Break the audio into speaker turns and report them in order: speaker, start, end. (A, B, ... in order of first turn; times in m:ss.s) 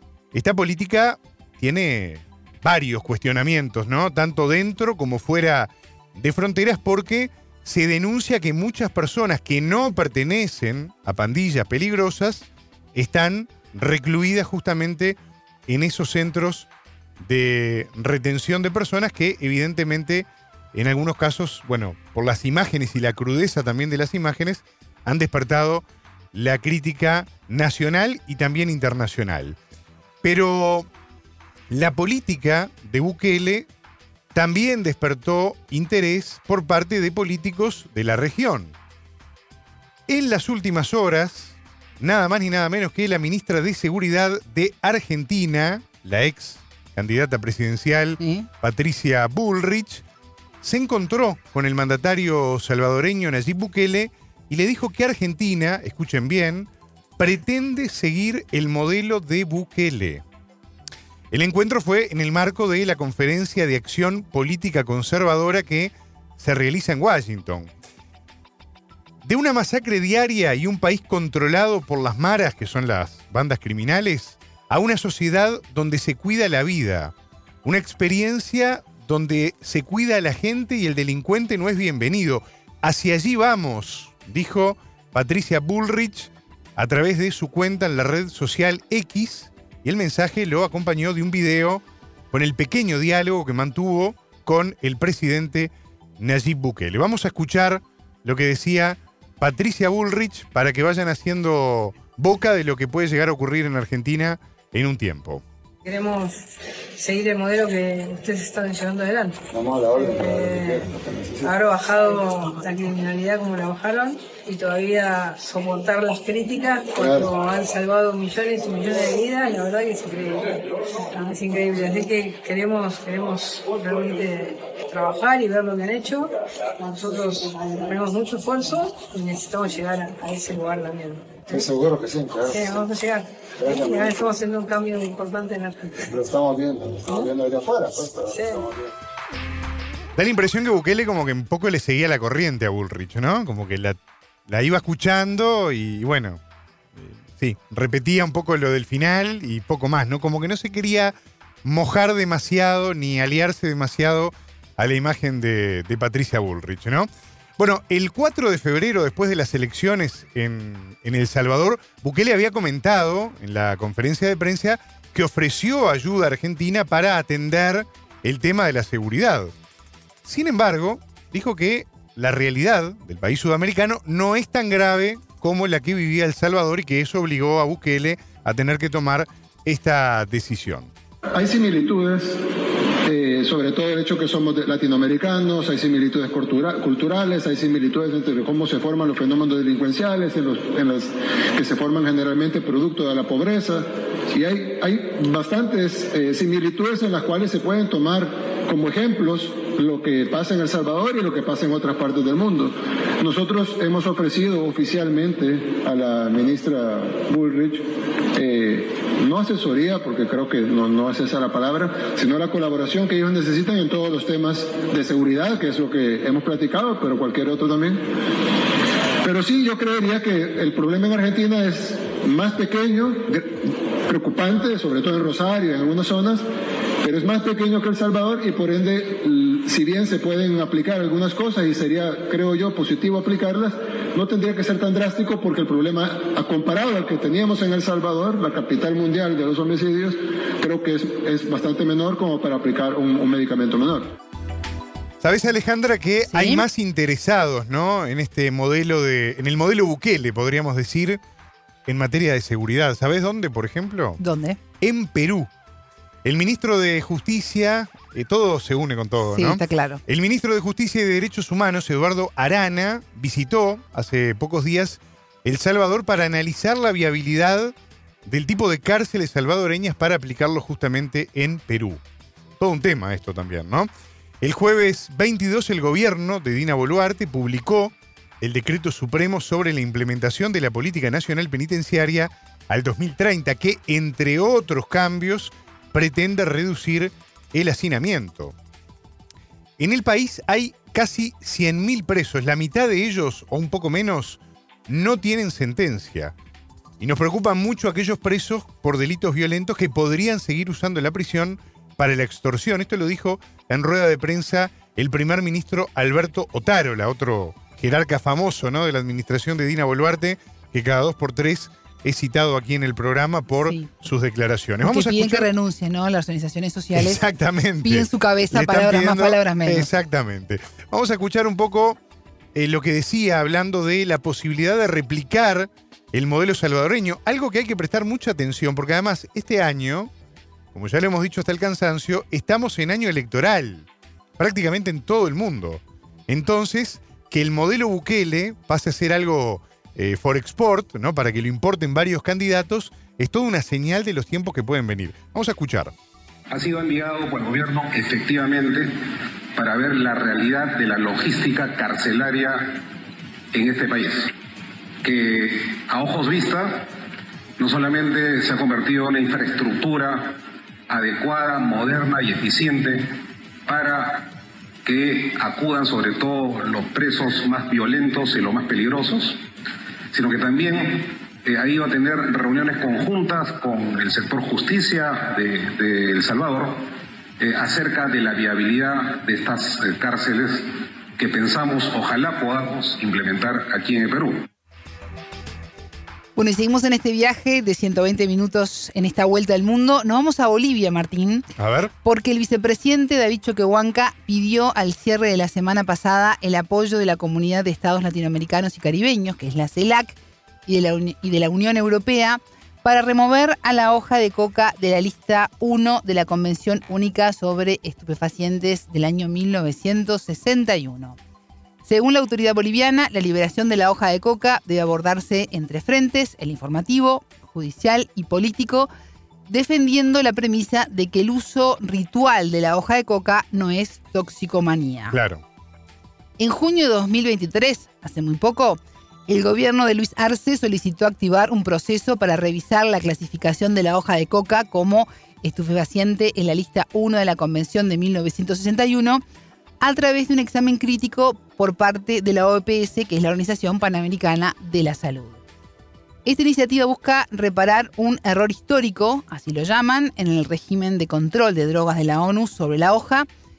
0:00.3-0:29.6 A
0:30.2-0:30.9 A
0:31.7-0:33.7 A
0:34.3-0:38.8 A
0:40.1-0:50.0 A
0:48.2-0:48.5 B
0:50.6-1:00.2 A
1:01.3-1:07.7 A
1:09.2-1:45.4 A
1:45.8-1:46.3 C
1:47.0-1:49.4 C
1:50.0-1:50.9 C
1:51.4-2:11.3 C
2:11.6-2:12.4 D
2:12.5-2:16.0 C
2:16.2-2:17.9 D
2:18.3-2:18.6 C
2:20.2-2:26.4 A
2:27.0-2:49.5 A
2:50.2-3:00.9 A
3:01.3-3:02.4 D
3:03.1-3:27.8 D
3:28.4-3:38.0 D
3:39.2-3:43.5 D
3:44.1-3:46.4 D
3:47.0-4:04.1 D
4:05.2-4:11.2 A
4:06.3-4:06.6 B
4:11.9-4:14.2 A
4:14.2-4:14.6 B
4:14.8-4:15.5 A
4:16.2-4:27.7 A
4:19.3-4:20.0 B
4:28.3-4:32.0 A
4:32.6-4:33.9 A
4:34.4-4:48.6 A
4:49.8-4:56.3 A
4:57.0-5:15.5 A
5:14.8-5:17.2 B
5:16.9-5:22.0 A
5:17.8-5:19.9 B
5:22.6-5:30.1 A
5:30.7-5:33.9 A
5:34.4-5:45.9 A
5:46.5-5:49.0 E
5:49.6-5:52.8 E
5:53.5-5:54.3 E
5:55.0-5:56.9 E
5:57.6-6:03.2 E
6:03.7-6:09.4 E
6:10.1-6:16.9 E
6:17.4-6:24.4 E
6:26.4-6:31.5 B
6:31.6-6:31.9 A
6:32.0-6:51.2 B
6:51.8-6:58.9 B
6:59.5-7:05.2 B
7:05.1-7:05.4 A
7:06.4-7:19.2 B
7:19.8-7:25.4 B
7:26.2-7:33.3 B